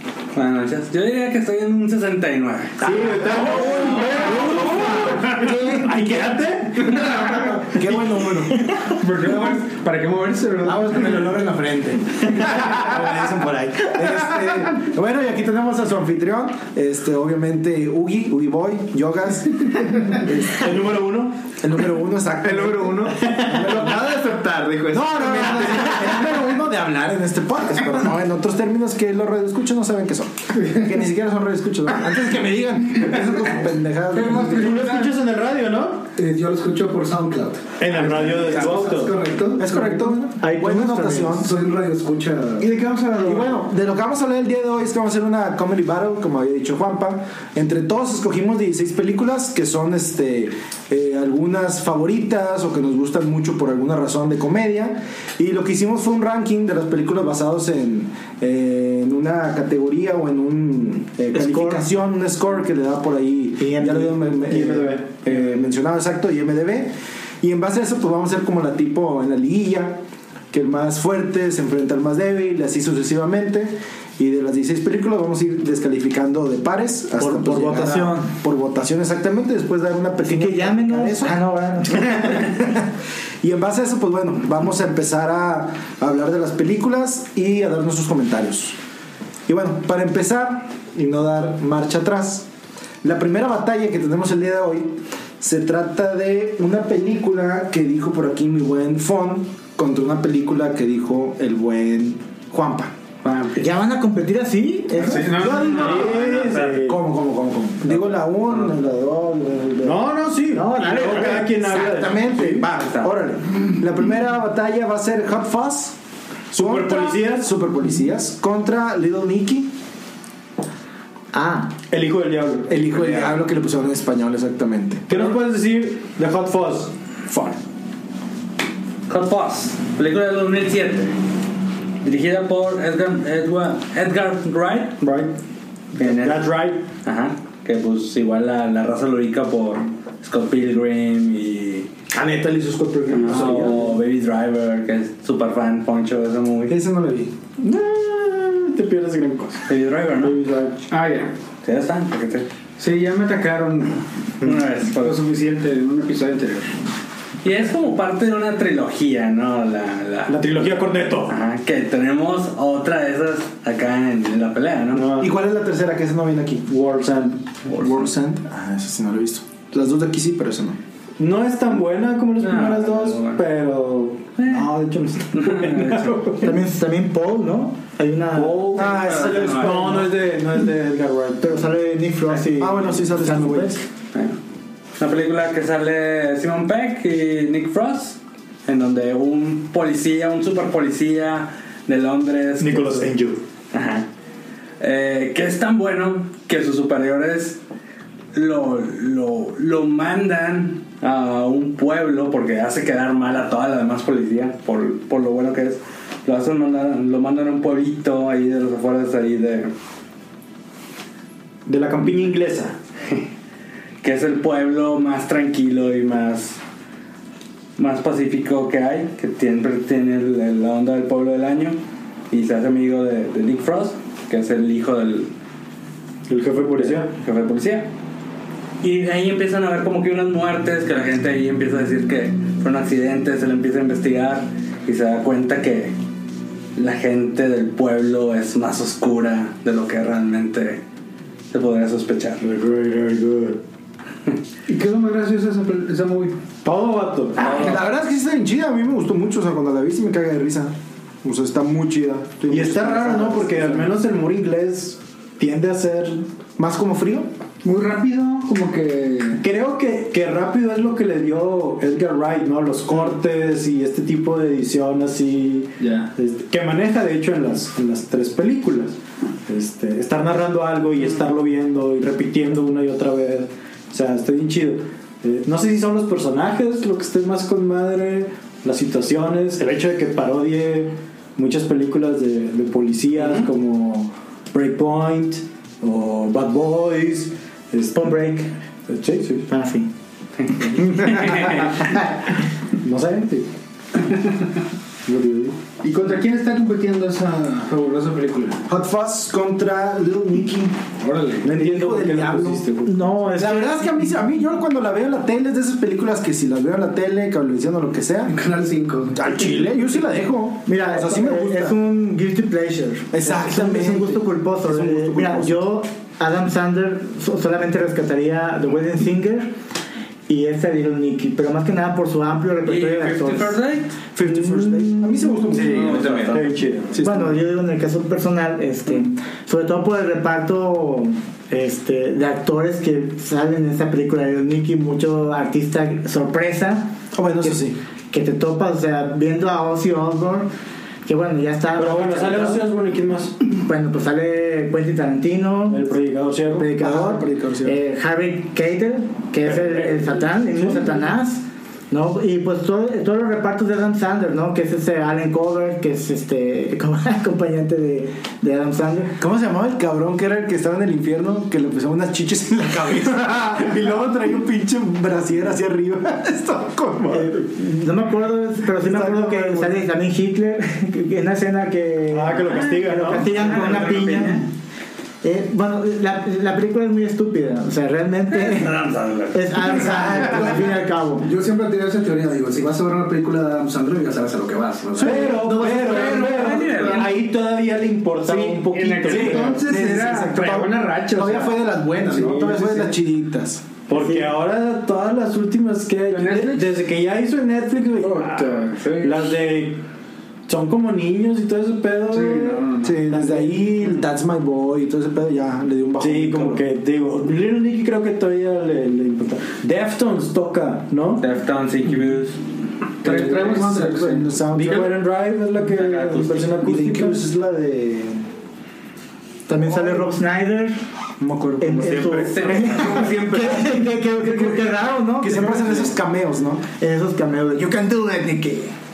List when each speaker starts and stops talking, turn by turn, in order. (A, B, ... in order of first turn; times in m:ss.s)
0:00.3-0:03.1 A
0:02.8-0:07.5 B
0:03.3-0:06.0 C
0:07.0-0:08.7 C
0:09.0-0:11.3 D
0:09.2-0:09.5 C
0:10.6-0:20.8 C
0:12.8-0:13.3 B
0:13.9-0:14.4 B
0:20.5-0:21.3 B
0:21.6-0:24.0 C
0:22.4-0:26.2 E
0:24.9-0:34.6 C
0:34.1-0:35.1 D
0:34.3-0:36.1 B
0:36.2-0:40.0 F
0:37.8-0:39.2 B
0:39.6-0:41.5 C
0:40.4-0:41.3 B
0:41.3-0:42.7 F
0:42.6-0:43.2 B
0:42.7-0:43.6 D
0:43.2-1:10.0 C
1:01.4-1:01.8 G
1:03.6-1:04.1 G
1:04.4-1:05.3 B
1:10.5-1:22.9 C
1:17.2-1:18.3 G
1:20.2-1:22.6 G
1:23.4-1:28.8 C
1:29.5-1:32.5 C
1:33.0-1:42.9 C
1:43.2-1:43.6 A
1:43.6-1:45.5 G
1:45.1-1:50.1 C
1:45.1-1:46.1 D
1:45.4-1:47.0 B
1:49.8-1:52.7 B
1:50.5-1:51.6 G
1:51.2-1:56.0 C
1:56.5-1:59.8 C
1:56.6-1:57.5 B
2:01.3-2:01.8 G
2:01.9-2:02.8 B
2:02.7-2:05.2 C
2:05.1-2:06.9 B
2:07.3-2:07.6 C
2:09.1-2:11.2 A
2:12.0-2:15.0 A
2:15.0-2:15.3 B
2:16.0-2:21.9 A
2:16.0-2:16.9 B
2:22.1-2:24.0 B
2:23.1-2:26.8 A
2:26.7-2:27.4 C
2:27.6-2:30.8 B
2:29.7-2:30.4 A
2:30.9-2:31.4 D
2:31.6-2:32.5 A
2:32.8-2:34.0 D
2:34.4-2:35.2 A
2:35.0-2:36.8 D
2:37.4-2:45.2 A
2:40.3-2:41.4 B
2:44.9-2:45.3 B
2:45.2-2:46.7 C
2:46.7-2:47.4 B
2:47.7-2:48.1 A
2:47.8-2:50.8 C
2:51.2-2:56.6 B
2:52.4-2:53.4 A
2:54.4-2:54.7 A
2:55.3-2:56.3 A
2:56.4-2:58.9 G
2:58.3-3:01.6 B
2:58.7-3:00.1 C
2:58.8-3:00.0 A
3:01.4-3:03.8 G
3:02.3-3:03.8 C
3:05.0-3:13.1 A
3:12.6-3:13.4 B
3:13.7-3:14.1 A
3:14.8-3:17.6 A
3:18.3-3:29.7 A
3:31.7-3:32.8 B
3:34.0-3:36.6 A
3:37.8-3:45.3 A
3:46.3-3:47.1 B
3:46.8-3:47.9 A
3:48.8-3:56.0 A
3:56.8-4:00.8 A
4:01.5-4:02.5 A
4:02.4-4:03.6 B
4:04.7-4:06.4 D
4:06.6-4:07.6 B
4:07.4-4:07.8 A
4:07.4-4:14.0 C
4:12.5-4:16.3 B
4:16.6-4:17.3 C
4:17.6-4:19.4 D
4:19.4-4:49.5 B
4:25.8-4:26.1 D
4:48.0-4:48.3 G
4:49.5-4:49.9 G
4:50.4-4:51.8 A
4:51.4-4:51.7 B
4:52.8-4:53.5 B
4:55.1-4:55.6 B
4:55.8-4:58.6 D
4:58.7-5:00.8 C
5:01.0-5:01.5 D
5:01.4-5:02.6 C
5:01.5-5:03.2 B
5:02.9-5:03.9 G
5:03.4-5:08.3 C
5:08.3-5:09.2 F
5:09.1-5:11.8 C
5:10.7-5:19.6 G
5:13.1-5:15.6 C
5:20.3-5:23.6 G
5:22.7-5:24.0 A
5:24.2-5:26.2 C
5:24.2-5:25.8 G
5:25.5-5:26.5 E
5:25.9-5:27.0 B
5:26.1-5:26.3 A
5:26.9-5:27.4 C
5:27.0-5:40.5 G
5:37.1-5:37.8 C
5:41.0-5:42.7 G
5:41.8-5:43.4 B
5:43.6-5:45.9 G
5:45.7-5:46.7 B
5:46.5-5:59.2 G
5:46.8-5:47.8 C
5:49.5-5:50.1 B
5:59.2-6:07.3 C
6:07.1-6:14.5 G
6:08.8-6:09.7 C
6:12.1-6:14.2 B
6:13.4-6:14.4 A
6:15.2-6:21.3 G
6:18.3-6:19.7 A
6:19.8-6:20.5 C
6:20.2-6:26.4 F
6:25.0-6:26.1 C
6:25.0-6:29.6 B
6:25.8-6:27.2 A
6:26.1-6:27.2 D
6:28.2-6:32.9 D
6:29.0-6:33.7 C
6:33.9-6:39.8 B
6:36.1-6:36.8 D
6:38.0-6:39.4 D
6:40.5-6:43.7 B
6:42.1-6:43.0 D
6:42.8-6:46.6 C
6:46.0-6:51.3 B
6:51.2-6:52.4 A
6:53.0-6:54.3 D
6:53.0-6:53.6 B
6:53.3-6:55.0 C
6:54.5-6:57.3 B
6:55.7-6:56.6 A
6:56.6-6:58.2 C
6:59.5-7:00.8 G
6:59.7-7:00.1 C
7:01.2-7:02.3 C
7:01.6-7:06.0 G
7:01.9-7:03.3 A
7:02.5-7:03.1 B
7:03.0-7:03.5 E
7:04.2-7:04.7 C
7:05.2-7:06.6 C
7:06.8-7:08.8 G